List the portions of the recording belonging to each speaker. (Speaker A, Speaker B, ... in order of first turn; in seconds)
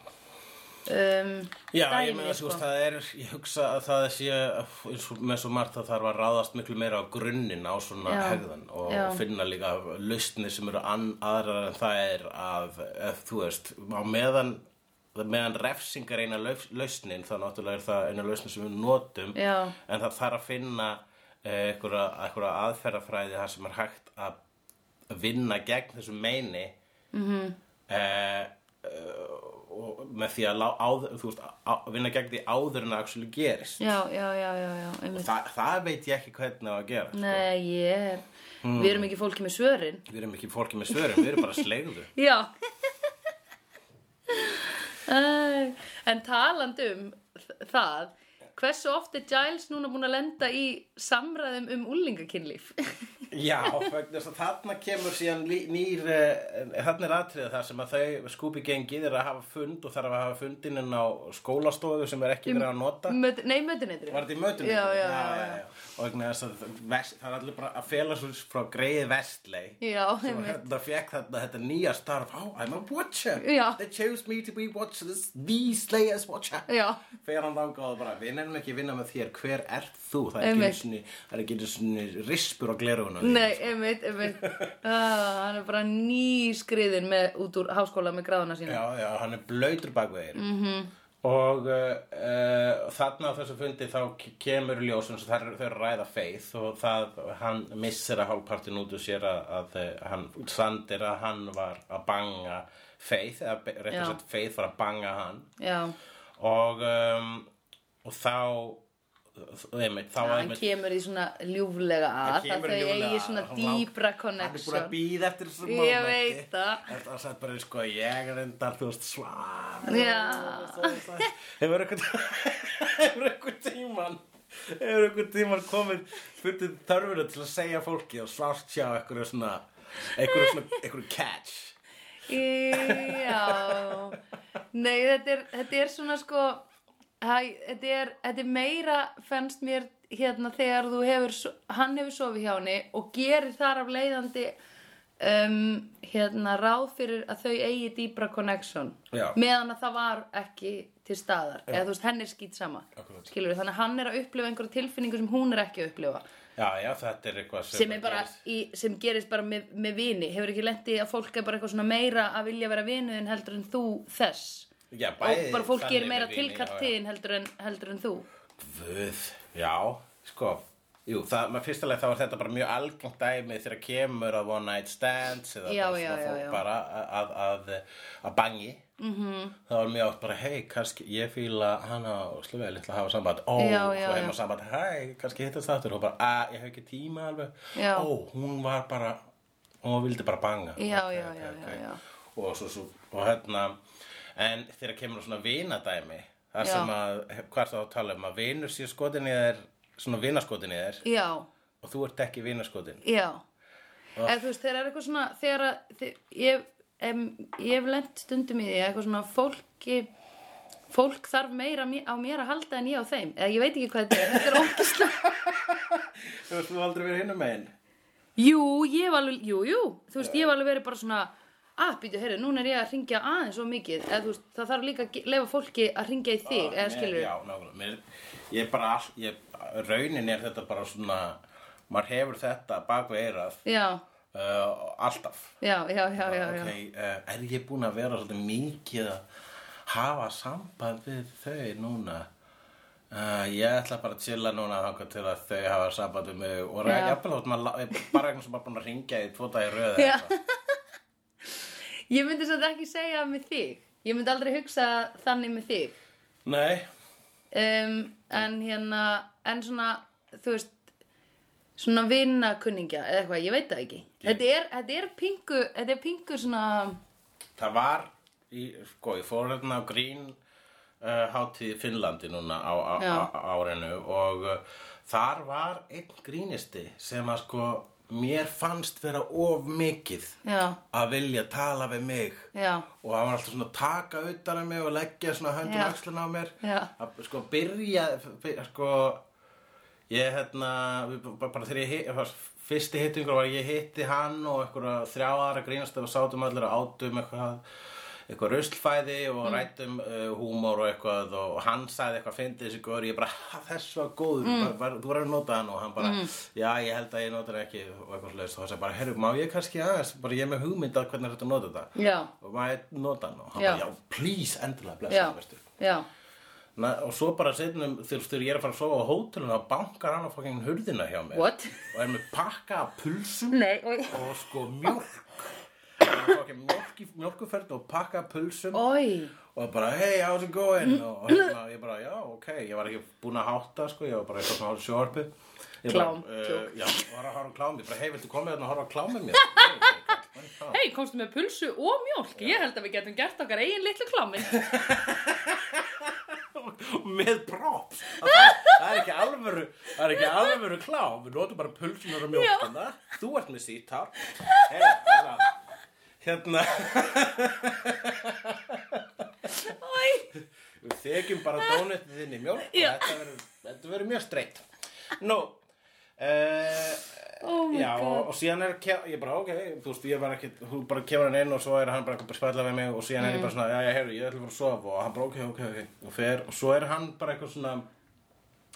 Speaker A: 0.9-2.6, 8.1-9.2, 19.4-19.8, 27.1-27.6, 33.8-35.3, 37.1-40.0, 41.1-41.4, 42.1-42.5, 44.3-53.7, 62.5-65.6, 69.8-70.6, 73.4-73.8, 76.7-77.0, 80.4-80.8, 83.2-88.8, 90.3-90.9, 103.9-104.2, 105.6-106.0, 110.2-115.0, 115.6-116.9, 119.8-121.3, 132.3-134.2, 134.7-136.7, 137.2-144.6, 145.2-156.2, 157.7-164.7, 165.2-168.3, 175.7-176.6, 179.0-179.6, 183.6-184.3, 187.7-188.1, 190.8-192.0, 196.6-196.9, 201.0-201.5, 203.0-203.4, 204.2-210.1, 210.9-215.2, 218.4-227.3, 233.7-234.0, 235.6-236.7, 246.8-247.2, 250.0-250.8, 252.1-255.9, 257.5-260.7, 261.8-267.0, 273.0-273.3, 280.4-280.8, 282.5-282.9, 285.6-286.0, 286.6-286.9, 304.4-304.7, 306.0-306.3, 312.0-312.3, 313.6-313.8, 315.1-316.1, 321.3-321.8, 323.5-324.3, 328.7-329.3, 335.9-336.9, 339.4-340.0, 340.7-344.6, 348.3-348.8, 350.2-350.5, 352.3-352.7, 354.3-355.2, 359.5-360.3, 362.6-363.2, 367.4-368.3, 373.2-373.5
Speaker B: 1.7-14.6, 15.2-24.4, 25.1-26.8, 27.9-33.8, 35.1-37.5, 38.6-39.1, 40.1-42.1, 53.3-63.2, 64.1-76.7, 77.2-84.8, 88.7-90.4, 91.2-105.5, 106.4-107.5, 108.0-108.8, 109.3-110.7, 112.2-131.8, 132.7-134.2, 149.1-149.4, 153.0-153.3, 156.6-158.4, 164.9-166.9, 168.6-178.8, 179.7-189.2, 189.8-191.8, 192.3-193.8, 194.4-201.0, 201.8-203.0, 204.2-204.5, 214.1-217.7, 226.4-233.6, 234.3-235.5, 236.2-239.2, 239.9-242.3, 243.1-250.3, 256.4-256.9, 267.6-270.4, 271.0-280.4, 280.9-289.2, 290.1-297.6, 298.3-315.7, 316.8-323.6, 324.1-328.8, 329.5-335.3, 335.8-340.8, 342.4-342.7, 344.5-355.5, 356.2-359.3, 360.8-364.7, 365.2-365.6, 366.2-377.9